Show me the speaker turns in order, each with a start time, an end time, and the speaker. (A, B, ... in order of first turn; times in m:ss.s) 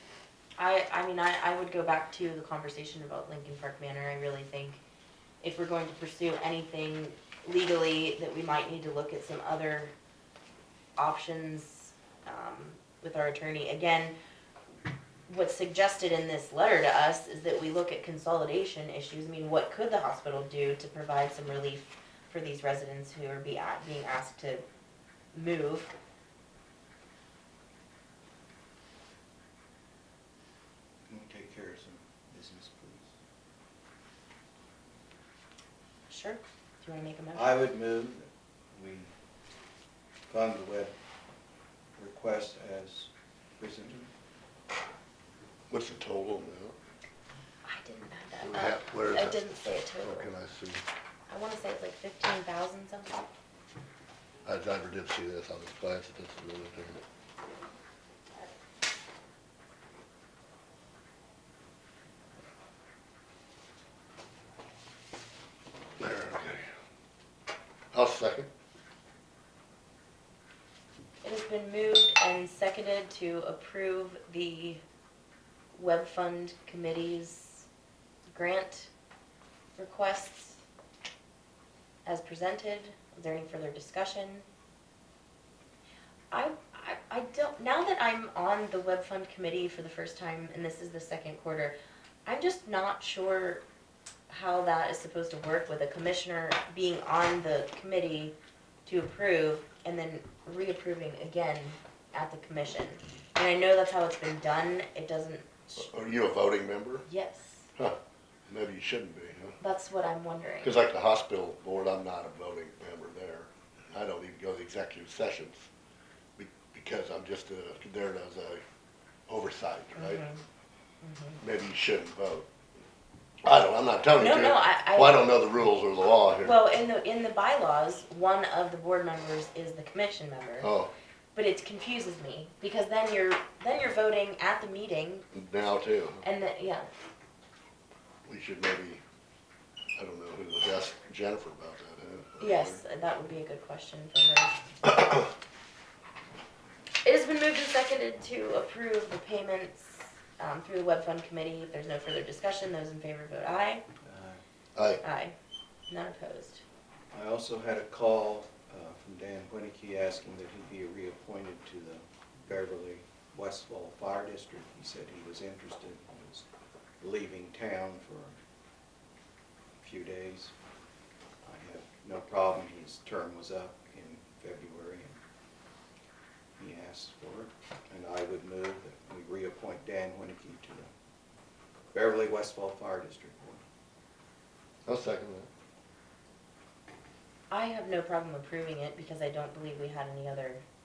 0:00.6-0:04.8 A
0:05.4-0:09.9 A
0:11.0-0:14.1 A
0:15.3-0:24.6 A
0:25.3-0:25.9 A
0:31.0-0:33.1 B
0:36.1-0:37.6 A
0:37.3-0:39.1 B
0:40.3-0:40.9 B
0:42.0-0:44.1 B
0:45.7-0:46.8 C
0:47.6-0:50.3 A
0:48.4-0:50.8 C
0:51.3-0:53.2 A
0:54.4-0:57.0 C
1:06.0-1:06.6 C
1:07.9-1:08.5 C
1:11.2-1:14.8 A
1:15.7-1:17.7 A
1:18.3-1:18.9 A
1:19.8-1:20.6 A
1:22.0-1:24.4 A
1:26.3-1:31.7 A
1:32.2-1:33.6 A
1:34.3-1:38.3 A
1:38.8-1:45.9 A
1:45.8-1:47.0 C
1:47.1-1:47.7 A
1:47.8-1:49.6 C
1:49.6-1:50.7 A
1:50.6-1:55.7 C
1:56.4-1:58.6 C
1:59.3-2:00.2 C
2:00.0-2:00.4 A
2:01.0-2:01.4 A
2:01.4-2:02.4 C
2:03.4-2:06.6 C
2:04.2-2:05.2 A
2:06.4-2:10.7 A
2:10.6-2:10.9 C
2:11.3-2:15.3 A
2:15.3-2:16.2 C
2:16.2-2:16.9 A
2:18.3-2:19.0 C
2:20.0-2:22.8 C
2:22.4-2:24.5 A
2:27.0-2:33.8 A
2:34.0-2:34.4 B
2:34.7-2:35.0 C
2:35.0-2:35.3 A
2:35.9-2:36.6 A
2:37.1-2:46.4 B
2:47.0-2:48.4 B
2:49.8-2:50.5 B
2:51.4-2:55.2 B
2:56.6-3:00.9 B
3:01.9-3:03.6 B
3:04.8-3:05.5 C
3:07.5-3:10.6 A